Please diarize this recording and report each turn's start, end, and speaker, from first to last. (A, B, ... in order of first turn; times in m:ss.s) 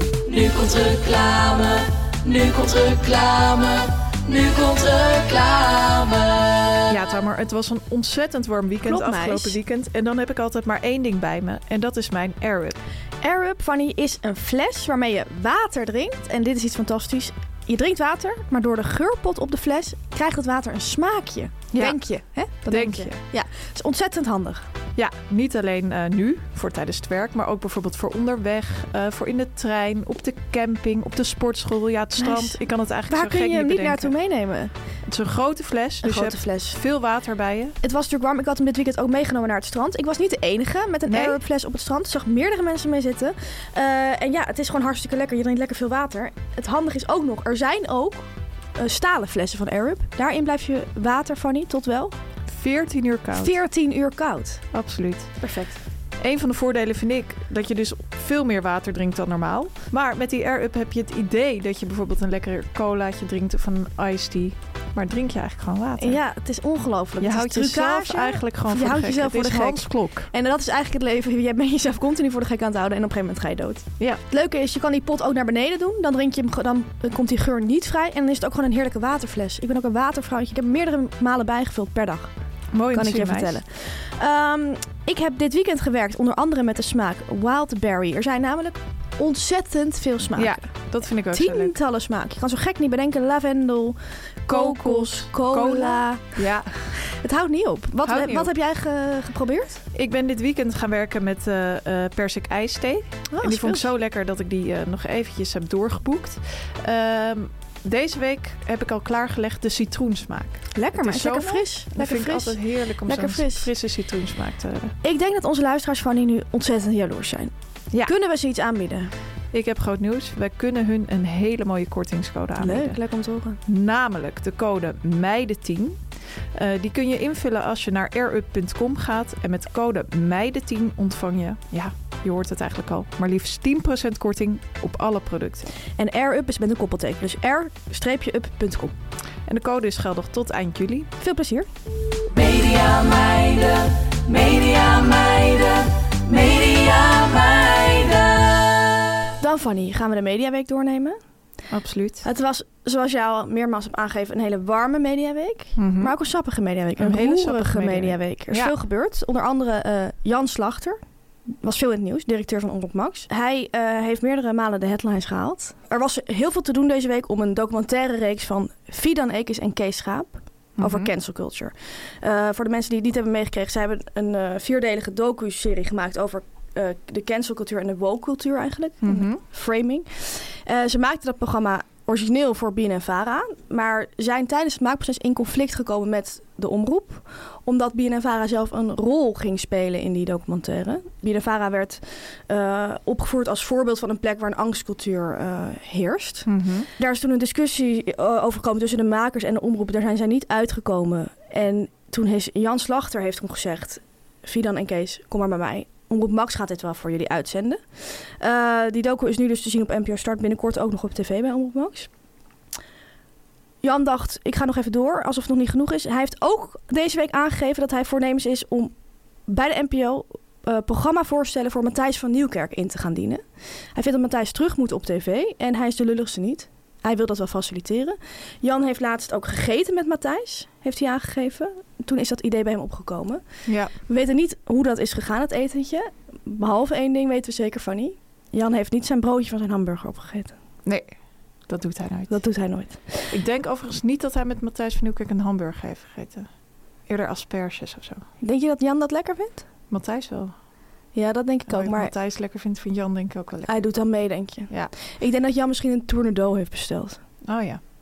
0:00.3-0:06.7 A
0:06.9-0:12.8 B
0:08.8-0:09.6 C
0:13.2-0:24.6 C
0:21.7-0:22.0 B
0:22.6-0:23.2 B
0:25.0-0:34.1 B
0:32.2-0:34.7 C
0:35.0-0:37.8 B
0:36.0-0:36.8 C
0:37.8-0:52.1 C
0:41.1-0:41.4 B
0:52.4-0:53.6 B
0:53.3-0:54.6 C
0:54.7-0:55.3 B
0:55.4-0:55.8 C
0:56.2-1:06.2 B
1:06.0-1:22.3 C
1:07.2-1:10.3 B
1:22.7-1:23.6 B
1:22.9-1:30.7 C
1:30.4-1:31.7 B
1:31.3-1:36.4 C
1:34.5-1:36.9 B
1:37.1-1:39.8 C
1:38.0-1:38.5 B
1:39.9-1:54.9 B
1:43.3-1:43.9 C
1:50.7-1:53.7 C
1:55.0-1:57.5 C
1:58.0-1:59.1 C
1:59.5-2:03.0 B
2:02.6-2:03.6 C
2:03.6-2:06.0 B
2:06.5-2:15.7 B
2:16.0-2:18.9 C
2:19.4-2:21.1 B
2:21.2-2:21.7 C
2:22.3-2:28.8 A
2:29.4-2:31.2 C
2:31.7-2:32.3 B
2:32.2-2:41.0 C
2:35.8-2:36.1 B
2:37.0-2:38.7 B
2:41.6-3:32.1 C
2:50.8-2:51.1 B
2:59.0-2:59.4 B
3:16.4-3:16.9 B
3:33.8-3:38.9 C
3:39.5-3:53.4 C
3:53.6-3:53.9 B
3:54.1-4:00.5 C
4:00.8-4:01.1 B
4:01.7-4:02.4 B
4:02.3-4:03.3 C
4:03.3-4:06.5 B
4:07.1-4:08.2 B
4:08.4-4:09.6 C
4:09.9-4:10.5 B
4:11.1-4:12.1 C
4:11.7-4:13.8 B
4:13.7-4:17.2 C
4:17.4-4:17.8 B